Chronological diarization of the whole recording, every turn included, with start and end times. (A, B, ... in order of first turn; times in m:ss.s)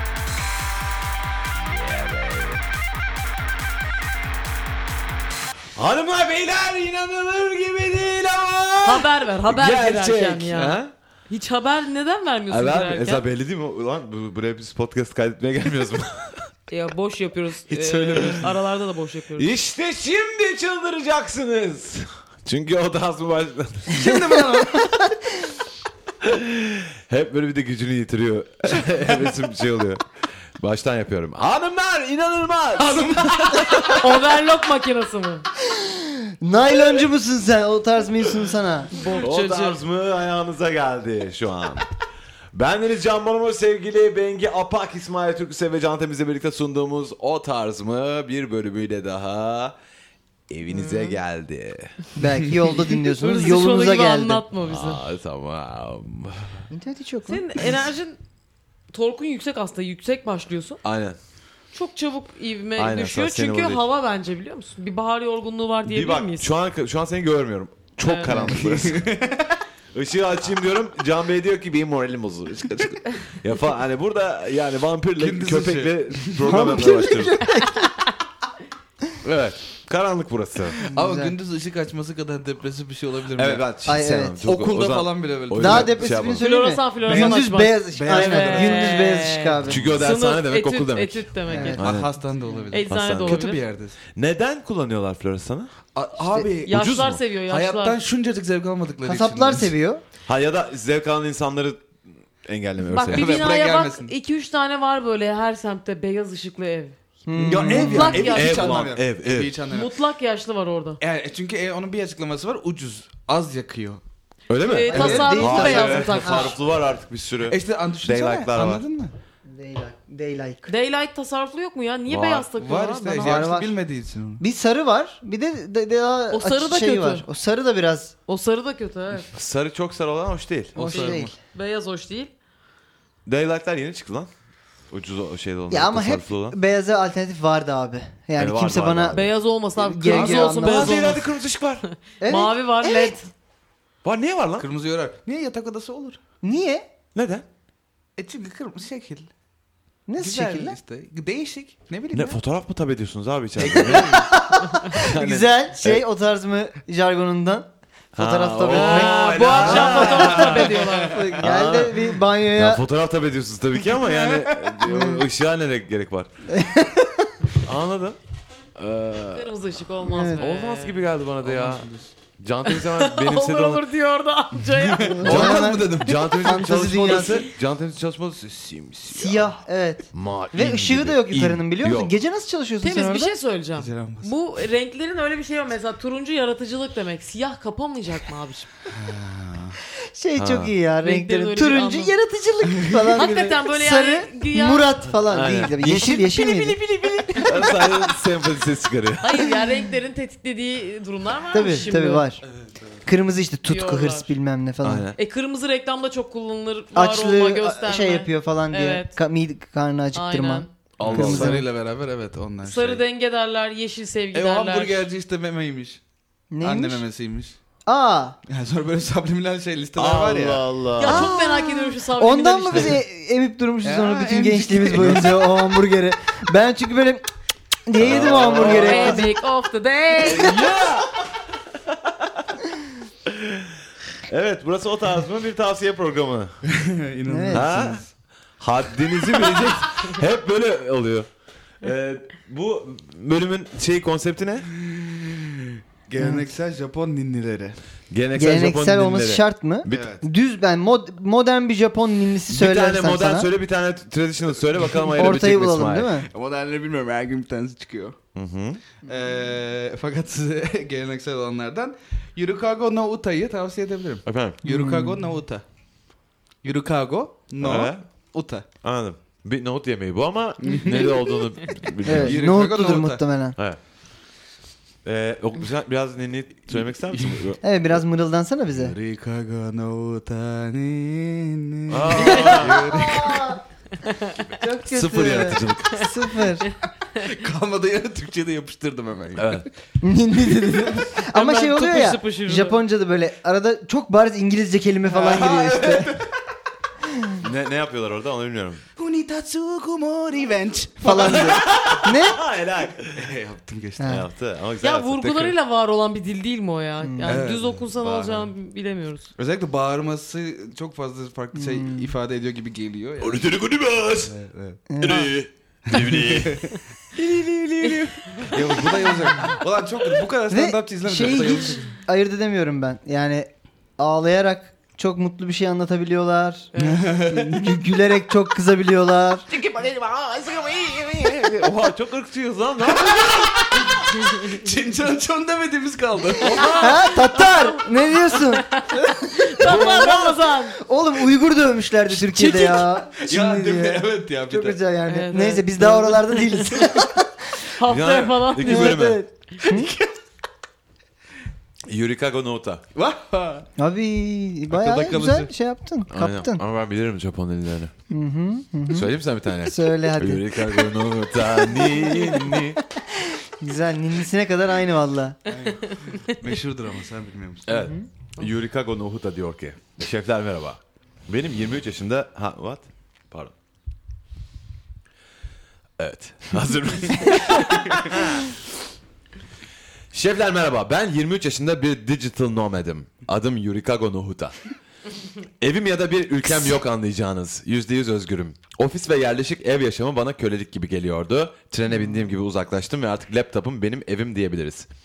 0:01.5-0:02.6 A
0:05.8-0:10.9 A
0:08.8-0:13.2 B
0:12.5-0:16.4 A
0:16.7-0:19.5 B
0:17.8-0:18.5 C
0:18.2-0:18.4 A
0:19.4-0:24.0 A
0:23.9-0:24.9 C
0:24.0-0:24.9 D
0:26.2-0:30.0 A
0:30.6-0:34.0 A
0:32.8-0:34.0 C
0:33.9-0:35.4 B
0:35.6-0:39.1 D
0:38.9-0:39.8 B
0:39.2-0:41.9 A
0:42.5-0:49.8 A
0:50.5-0:52.1 A
0:50.7-0:51.2 B
0:52.2-0:54.4 D
0:53.2-0:55.0 B
0:54.6-0:56.7 A
0:56.7-0:57.4 D
0:57.3-0:58.2 B
0:58.9-1:00.8 B
1:00.8-1:01.2 A
1:01.7-1:06.5 B
1:02.8-1:03.8 A
1:05.9-1:09.1 A
1:08.0-1:08.6 B
1:08.5-1:09.6 C
1:09.9-1:17.5 A
1:15.2-1:16.7 C
1:16.4-1:17.9 D
1:19.2-1:20.8 A
1:20.8-1:23.7 C
1:20.8-1:21.3 D
1:23.3-1:26.5 A
1:23.8-1:24.4 D
1:24.4-1:26.2 C
1:25.6-1:30.0 D
1:26.2-1:31.8 B
1:27.1-1:29.0 C
1:29.6-1:32.1 A
1:31.5-1:31.8 D
1:31.6-1:34.0 C
1:32.7-1:33.6 B
1:32.9-1:33.4 A
1:34.1-1:35.7 A
1:36.0-1:36.8 C
1:36.7-1:38.0 B
1:36.7-1:37.2 A
1:37.5-1:39.7 C
1:39.0-1:40.0 D
1:40.3-1:41.8 A
1:42.4-1:43.4 A
1:42.9-1:47.0 B
1:43.1-1:44.1 C
1:47.3-1:48.2 D
1:47.4-1:49.9 C
1:47.5-1:48.8 B
1:48.0-1:49.6 A
1:49.7-1:51.0 B
1:51.0-1:54.0 C
1:54.5-1:58.8 A
1:54.6-1:56.6 B
1:54.9-1:55.8 C
1:54.9-1:56.6 D
1:57.5-1:59.1 C
1:59.5-2:00.7 D
2:00.7-2:03.5 B
2:02.1-2:02.5 A
2:02.6-2:04.4 C
2:03.2-2:03.8 D
2:04.4-2:08.1 D
2:06.3-2:07.2 B
2:08.3-2:09.3 B
2:09.3-2:10.8 A
2:10.8-2:11.3 C
2:10.8-2:11.3 D
2:10.9-2:12.3 B
2:13.3-2:14.3 A
2:14.9-2:16.6 A
2:15.7-2:21.2 D
2:18.4-2:19.2 A
2:19.1-2:21.2 B
2:20.1-2:20.6 C
2:20.6-2:21.8 A
2:22.2-2:23.1 D
2:22.2-2:23.3 B
2:24.0-2:24.7 A
2:24.6-2:26.2 C
2:26.4-2:26.9 D
2:27.2-2:27.4 A
2:28.2-2:29.3 C
2:30.1-2:30.8 D
2:30.2-2:32.4 C
2:32.1-2:34.3 A
2:33.6-2:34.3 C
2:33.7-2:42.8 D
2:34.9-2:36.0 A
2:38.1-2:40.8 A
2:38.7-2:41.3 B
2:40.8-2:41.3 C
2:41.4-2:46.3 A
2:44.0-2:44.7 C
2:44.8-2:45.2 D
2:46.5-2:47.3 D
2:47.6-2:48.2 A
2:48.8-2:49.5 A
2:49.3-2:51.1 B
2:50.0-2:50.5 D
2:50.4-2:53.8 A
2:51.4-2:52.1 C
2:52.7-2:55.4 B
2:54.8-2:56.6 C
2:55.1-2:57.5 D
2:55.2-2:59.5 A
2:59.1-3:03.3 D
3:00.1-3:02.1 A
3:02.8-3:08.7 B
3:03.8-3:04.3 C
3:08.9-3:09.8 C
3:10.1-3:17.6 D
3:10.4-3:10.8 A
3:11.0-3:12.1 B
3:12.7-3:13.0 C
3:13.1-3:15.0 B
3:15.3-3:16.8 A
3:17.1-3:17.6 C
3:17.4-3:19.5 A
3:19.2-3:22.3 B
3:21.5-3:22.5 D
3:22.5-3:23.0 C
3:23.1-3:25.1 D
3:23.7-3:24.3 B
3:24.8-3:25.2 A
3:25.2-3:29.2 B
3:27.0-3:31.7 D
3:30.1-3:30.7 B
3:31.0-3:31.6 A
3:31.0-3:33.0 C
3:32.6-3:35.1 B
3:34.3-3:36.0 C
3:36.5-3:37.0 D
3:36.6-3:37.6 C
3:37.9-3:38.4 D
3:38.5-3:40.6 C
3:40.0-3:41.4 A
3:41.0-3:43.0 B
3:41.0-3:47.3 D
3:43.8-3:45.5 C
3:47.9-3:49.3 D
3:48.0-3:49.2 A
3:48.5-3:50.6 B
3:48.6-3:49.2 C
3:50.2-3:52.4 A
3:50.3-3:50.5 D
3:53.2-3:56.5 A
3:56.6-3:58.1 C
3:57.3-3:57.8 D
3:57.5-3:58.0 A
3:58.6-4:01.3 A
4:01.8-4:04.7 A
4:04.8-4:07.8 C
4:06.2-4:06.5 D
4:08.1-4:10.1 A
4:08.4-4:13.5 D
4:09.9-4:10.2 C
4:12.5-4:16.1 A
4:15.1-4:16.3 D
4:16.3-4:18.2 C
4:18.4-4:18.8 A
4:19.0-4:25.6 C
4:24.3-4:24.6 A
4:24.6-4:25.2 D
4:26.6-4:28.7 C
4:27.6-4:28.0 A
4:28.8-4:32.4 A
4:30.6-4:31.1 C
4:32.0-4:33.2 C
4:32.0-4:33.6 D
4:35.0-4:37.6 A
4:36.7-4:37.5 C
4:37.6-4:39.0 D
4:38.7-4:43.6 C
4:41.9-4:43.0 A
4:42.2-4:43.6 D
4:44.0-4:44.4 B
4:44.6-4:46.7 D
4:44.9-4:46.1 A
4:46.6-4:47.3 B
4:47.2-4:49.7 C
4:49.4-4:49.7 A
4:50.0-4:56.1 D
4:51.3-4:52.8 B
4:55.1-4:56.4 C
4:57.4-4:58.8 A
4:59.0-5:01.6 C
5:01.0-5:02.4 D
5:01.2-5:03.3 A
5:03.1-5:04.2 C
5:04.0-5:04.3 D
5:04.0-5:05.6 A
5:04.8-5:09.3 B
5:07.0-5:07.4 D
5:07.2-5:07.9 C
5:08.0-5:08.5 A
5:09.4-5:13.5 C
5:11.6-5:12.1 D
5:13.2-5:14.3 A
5:14.3-5:14.8 C
5:14.9-5:15.3 D
5:15.0-5:19.1 A
5:15.9-5:16.8 C
5:18.3-5:21.9 C
5:20.5-5:26.7 D
5:26.7-5:27.0 B
5:26.8-5:27.8 C
5:27.2-5:29.4 D
5:29.6-5:33.6 A
5:32.9-5:36.8 C
5:36.4-5:40.8 B
5:36.6-5:47.3 D
5:39.7-5:40.1 A
5:42.1-5:42.9 B
5:43.2-5:44.8 C
5:45.1-5:47.0 B
5:47.7-5:49.1 B
5:47.8-5:49.2 A
5:48.6-5:49.9 D
5:49.6-5:50.1 C
5:51.9-5:52.8 A
5:52.9-5:53.7 C
5:53.8-5:56.6 D
5:54.7-5:55.5 C
5:56.1-5:57.9 A
5:58.1-5:59.1 D
5:58.9-6:02.8 A
5:59.6-6:00.9 D
6:01.7-6:05.4 D
6:05.5-6:07.7 C
6:05.6-6:06.4 B
6:07.7-6:13.5 A
6:07.7-6:08.0 D
6:16.0-6:18.5 A
6:20.1-6:24.6 A
6:25.6-6:34.9 A